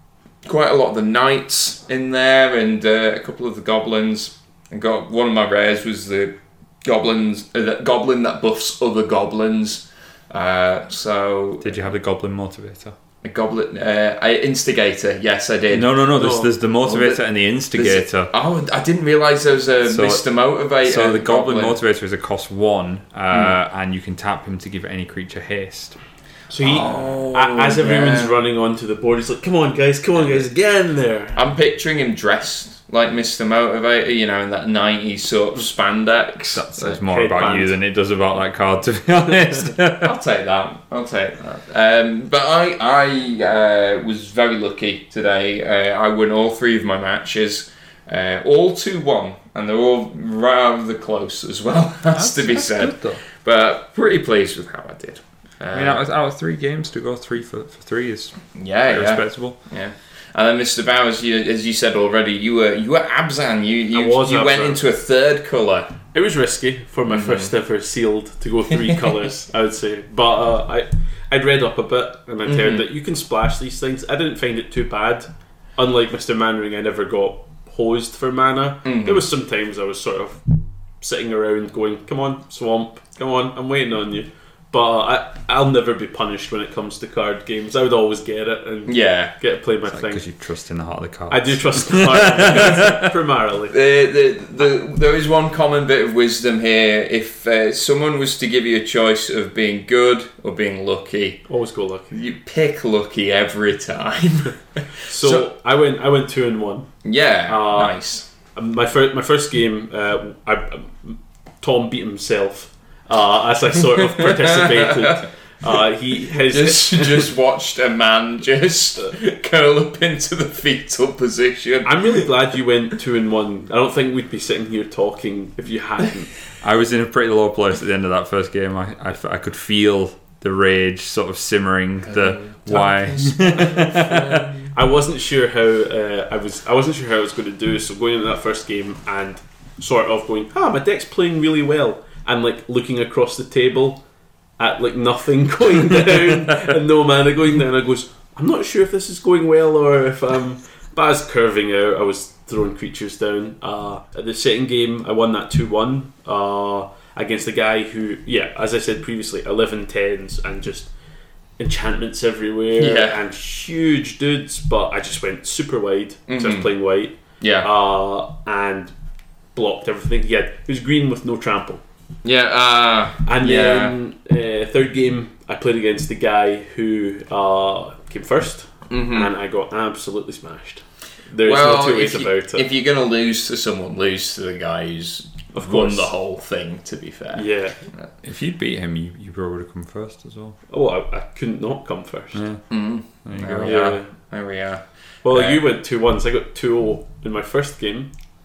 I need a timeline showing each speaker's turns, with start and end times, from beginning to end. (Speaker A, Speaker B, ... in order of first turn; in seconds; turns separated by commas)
Speaker A: 0.5-11.8, Speaker B: 11.6-12.9, Speaker A: 13.2-16.1, Speaker B: 15.7-18.3, Speaker C: 16.1-16.5, Speaker A: 16.8-21.8, Speaker B: 19.9-20.2, Speaker B: 20.8-26.0, Speaker A: 23.3-23.6, Speaker C: 26.5-31.4, Speaker A: 26.6-28.3, Speaker A: 31.4-37.0, Speaker B: 36.5-40.1, Speaker C: 37.1-37.8, Speaker A: 40.0-56.0, Speaker B: 52.2-53.2, Speaker B: 55.7-59.6, Speaker A: 58.5-66.0, Speaker C: 63.9-64.8, Speaker C: 66.1-80.5, Speaker A: 67.1-67.5, Speaker A: 72.5-72.9, Speaker A: 78.8-79.2, Speaker C: 81.0-90.2, Speaker A: 88.9-89.3, Speaker B: 89.9-93.1, Speaker C: 91.3-93.8, Speaker A: 93.7-101.5, Speaker C: 101.5-102.1, Speaker A: 102.1-104.6, Speaker C: 105.1-106.9, Speaker A: 105.2-105.5, Speaker A: 107.0-108.3, Speaker C: 107.5-108.0, Speaker C: 108.5-117.3, Speaker A: 114.0-115.2, Speaker A: 116.4-122.3, Speaker C: 121.8-126.3, Speaker B: 126.6-134.5, Speaker A: 132.3-134.6, Speaker C: 134.7-144.0, Speaker C: 144.6-160.9, Speaker C: 161.6-168.9, Speaker A: 162.8-163.2, Speaker A: 166.3-166.7, Speaker A: 167.4-167.7, Speaker C: 169.6-171.8, Speaker A: 172.2-173.9, Speaker C: 173.2-182.7, Speaker A: 178.9-179.3, Speaker A: 181.4-187.4, Speaker C: 185.5-186.1, Speaker C: 187.3-187.8, Speaker B: 188.2-190.6, Speaker C: 190.7-192.4, Speaker B: 192.3-192.6, Speaker A: 192.7-195.6, Speaker B: 193.2-193.9, Speaker C: 193.6-194.1, Speaker C: 195.2-198.1